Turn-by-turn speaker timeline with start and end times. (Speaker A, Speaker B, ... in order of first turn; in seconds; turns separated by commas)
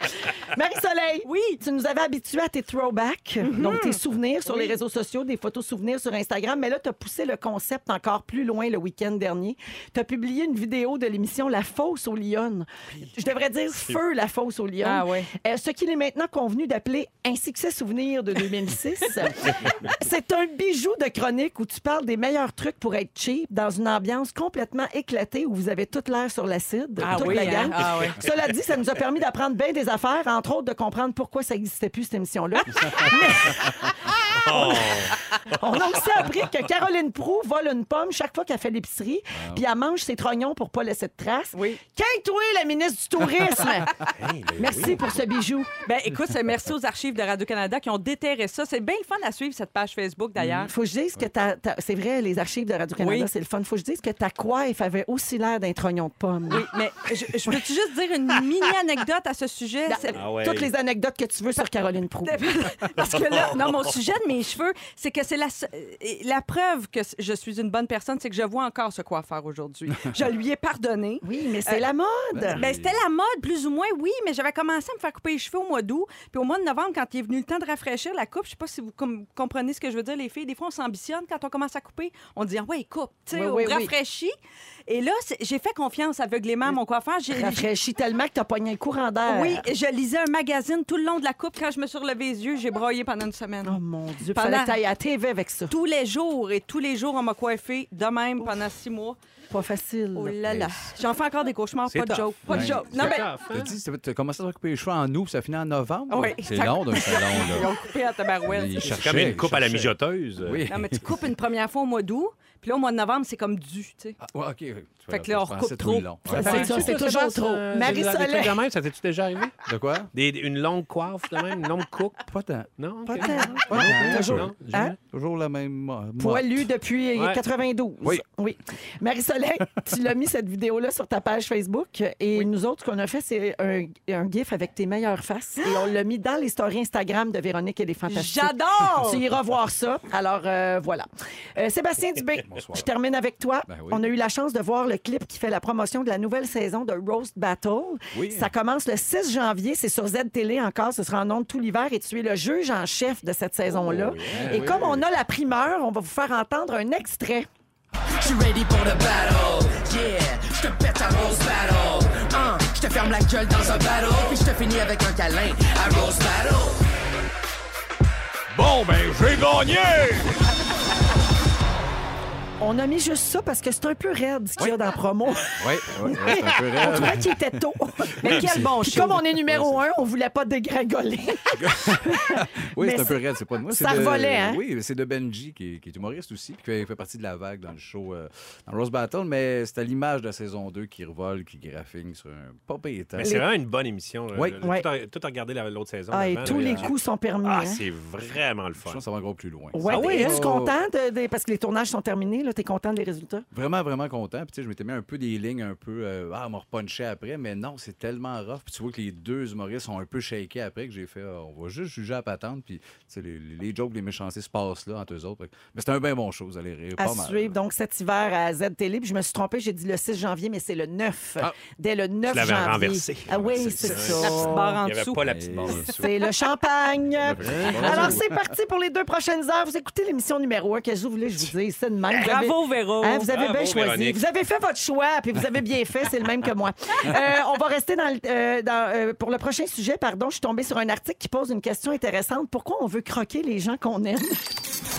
Speaker A: 0.3-33.9, Speaker B: 1.2-1.6, Speaker B: 3.5-4.8, Speaker B: 14.8-15.3, Speaker B: 27.0-28.2, Speaker A: 34.4-43.9, Speaker C: 34.4-36.0, Speaker D: 39.3-39.6, Speaker B: 41.5-41.8, Speaker C: 44.1-45.0, Speaker A: 44.6-45.7, Speaker B: 45.8-50.7, Speaker A: 50.5-56.6, Speaker B: 53.0-53.3, Speaker B: 56.5-60.2, Speaker A: 59.9-62.4, Speaker C: 60.1-60.7, Speaker B: 62.2-71.8, Speaker A: 71.2-72.6, Speaker D: 72.3-73.0, Speaker B: 72.5-84.3, Speaker A: 83.3-83.9, Speaker B: 84.9-87.7, Speaker A: 87.3-89.7, Speaker B: 89.2-94.8, Speaker A: 93.6-95.7, Speaker B: 95.7-99.2, Speaker A: 99.5-100.4, Speaker B: 100.1-103.3, Speaker D: 100.5-100.7, Speaker C: 101.9-103.7, Speaker D: 102.5-107.8, Speaker B: 106.1-108.9, Speaker D: 108.4-111.1, Speaker C: 108.8-110.6, Speaker B: 110.7-114.2, Speaker D: 114.2-116.9, Speaker B: 115.1-116.9, Speaker A: 116.3-118.6, Speaker C: 116.3-119.6, Speaker D: 119.7-120.1, Speaker C: 120.1-122.2, Speaker D: 122.2-122.7, Speaker C: 122.8-124.9, Speaker A: 123.1-124.9, Speaker D: 123.6-126.7, Speaker A: 126.2-157.5, Speaker C: 127.1-127.4, Speaker B: 138.1-139.3, Speaker D: 143.7-144.1, Speaker D: 148.1-148.5, Speaker D: 153.7-155.0, Speaker E: 158.2-166.8, Speaker D: 168.5-170.4, Speaker A: 172.6-175.5, Speaker D: 175.5-177.6, Speaker A: 176.0-184.6, Speaker B: 178.2-179.2, Speaker D: 178.2-178.8, Speaker D: 179.5-179.8, Speaker D: 181.5-193.4, Speaker C: 193.2-196.9, Speaker A: 196.1-197.8, Speaker D: 196.4-196.9, Speaker C: 197.4-199.0, Speaker D: 198.8-200.7, Speaker A: 199.7-203.4, Speaker C: 199.9-200.4, Speaker D: 203.5-217.6, Speaker A: 217.0-224.7, Speaker C: 222.3-226.0, Speaker D: 223.6-225.9, Speaker B: 224.2-225.3, Speaker A: 226.0-244.4, Speaker D: 227.2-228.4, Speaker C: 227.4-228.1, Speaker B: 232.1-233.3, Speaker C: 233.3-234.2